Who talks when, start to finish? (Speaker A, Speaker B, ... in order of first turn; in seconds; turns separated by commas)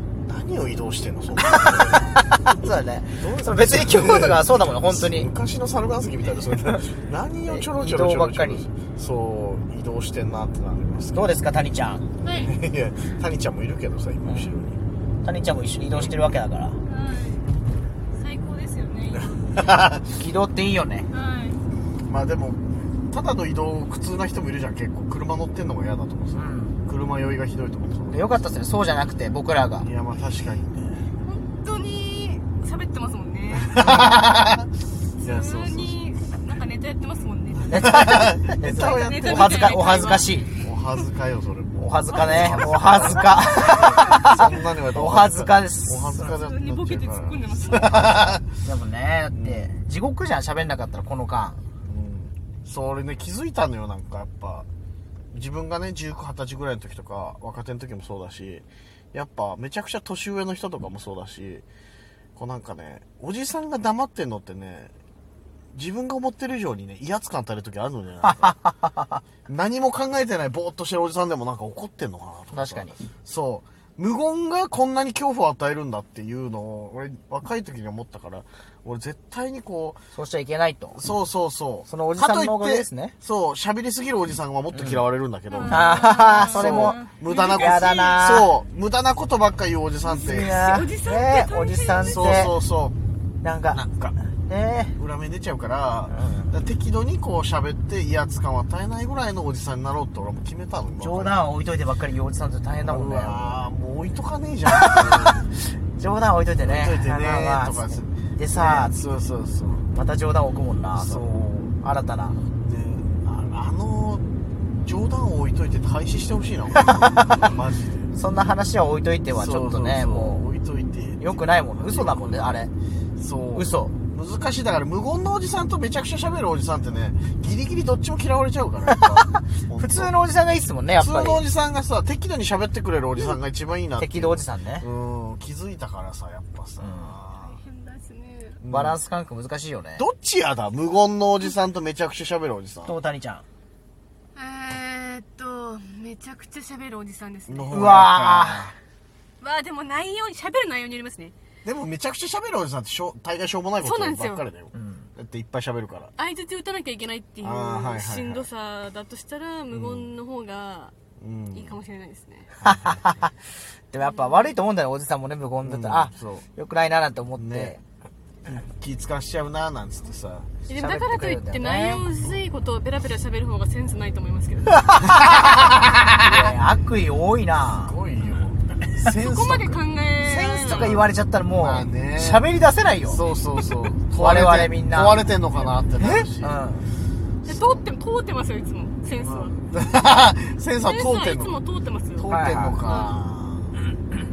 Speaker A: 0.3-2.2, Speaker B: 1.5-5.3, Speaker A: 3.2-11.3, Speaker B: 7.5-8.7, Speaker B: 11.1-12.0, Speaker C: 12.2-12.6, Speaker A: 12.4-14.8, Speaker B: 14.2-14.6, Speaker B: 15.2-16.8, Speaker C: 16.9-17.5, Speaker C: 18.1-19.7, Speaker A: 19.4-20.2, Speaker B: 20.1-21.1, Speaker C: 21.1-21.6, Speaker A: 22.1-28.6, Speaker B: 26.4-26.8, Speaker B: 28.1-29.9, Speaker A: 29.8-31.1, Speaker C: 31.2-34.2, Speaker A: 33.6-34.7, Speaker C: 35.2-37.9, Speaker A: 35.2-36.0, Speaker B: 37.7-40.5, Speaker A: 37.8-39.7, Speaker C: 38.5-40.5, Speaker A: 40.6-48.5, Speaker B: 41.8-46.3, Speaker C: 42.1-44.2, Speaker C: 46.2-48.4, Speaker B: 48.5-51.6, Speaker A: 49.3-49.8, Speaker A: 51.8-54.7, Speaker A: 55.3-61.6, Speaker A: 62.4-64.9, Speaker A: 65.7-68.6, Speaker B: 68.4-69.2, Speaker A: 69.5-80.0, Speaker B: 72.5-73.0, Speaker B: 80.1-81.1, Speaker A: 81.0-90.6, Speaker B: 81.9-83.2, Speaker B: 84.7-85.1, Speaker C: 85.5-88.2, Speaker B: 85.7-88.5, Speaker C: 90.0-92.4, Speaker B: 90.2-92.6, Speaker A: 92.0-93.0, Speaker B: 93.4-93.8, Speaker A: 93.7-94.2, Speaker B: 94.5-94.9, Speaker A: 95.0-101.4, Speaker B: 96.1-96.6, Speaker B: 100.9-103.6, Speaker A: 102.8-105.6, Speaker B: 104.7-105.2, Speaker B: 105.8-109.0, Speaker A: 106.6-109.9, Speaker B: 109.9-112.4, Speaker A: 111.0-111.8, Speaker A: 112.6-114.2, Speaker A: 114.8-118.1, Speaker B: 117.0-117.5, Speaker B: 118.1-120.5, Speaker A: 119.3-130.1, Speaker B: 121.2-122.7, Speaker B: 123.5-124.0, Speaker B: 128.9-131.4, Speaker A: 131.0-137.6, Speaker B: 134.0-134.9, Speaker B: 136.8-137.2, Speaker C: 137.4-138.6, Speaker A: 138.6-139.0, Speaker B: 138.7-140.1, Speaker A: 140.0-142.9, Speaker B: 142.8-143.4, Speaker C: 144.3-148.0, Speaker A: 147.5-148.7, Speaker B: 147.7-148.7, Speaker C: 149.4-151.3, Speaker A: 151.7-156.1, Speaker C: 153.8-154.4, Speaker B: 154.7-155.1, Speaker C: 156.2-160.9, Speaker A: 157.4-158.5, Speaker A: 159.7-160.1, Speaker A: 161.2-161.7, Speaker C: 161.5-162.6, Speaker B: 162.6-163.3, Speaker B: 163.9-167.8, Speaker C: 164.0-164.6, Speaker A: 165.6-166.5, Speaker A: 167.4-167.7, Speaker A: 168.5-170.6, Speaker C: 170.7-175.0, Speaker B: 170.7-172.1, Speaker B: 174.7-178.0, Speaker A: 176.2-176.6, Speaker A: 177.8-179.8, Speaker C: 178.2-178.5, Speaker C: 179.1-181.1, Speaker B: 180.2-183.2, Speaker A: 181.6-182.5, Speaker A: 183.1-186.5, Speaker C: 183.3-183.7, Speaker B: 184.1-185.3, Speaker B: 186.0-186.9, Speaker C: 187.4-189.6, Speaker A: 187.5-187.8, Speaker A: 189.2-191.6, Speaker C: 190.8-192.3, Speaker A: 192.2-193.7, Speaker B: 192.2-192.8, Speaker C: 192.8-193.2